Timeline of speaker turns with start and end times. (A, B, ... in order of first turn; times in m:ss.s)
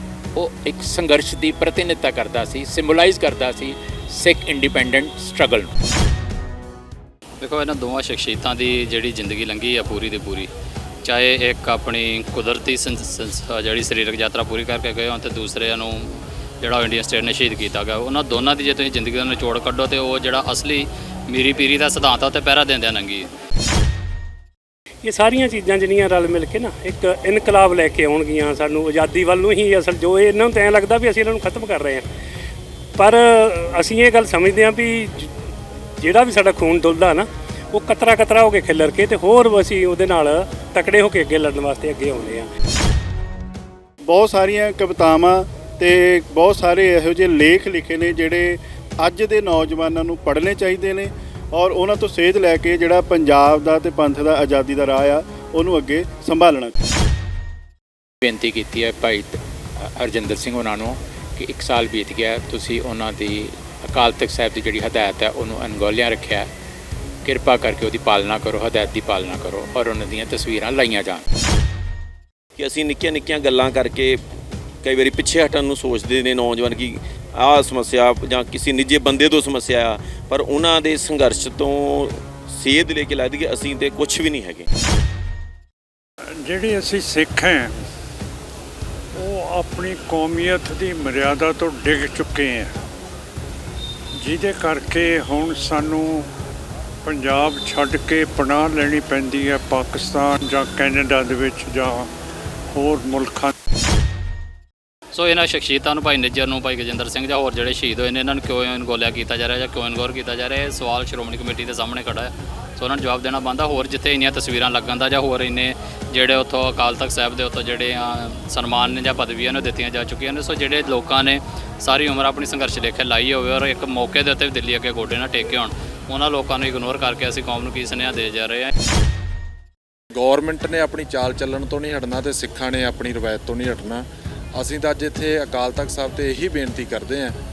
0:00.4-0:05.7 A
0:07.4-0:10.5 B
0:11.0-0:23.3 B
0:25.0-0:32.1 C
0:33.0-0:35.3 C
0:36.0-0:42.5 C
0:44.1-0:56.7 D
0:58.2-1:06.5 A
1:07.2-1:11.2 A
1:12.6-1:14.2 E
1:14.8-1:24.7 E
1:26.4-1:27.8 F
1:29.1-1:32.7 F
1:34.2-1:36.3 F
1:37.0-1:42.1 F
1:42.7-1:43.5 F
1:45.1-2:08.7 B
2:10.1-2:17.4 G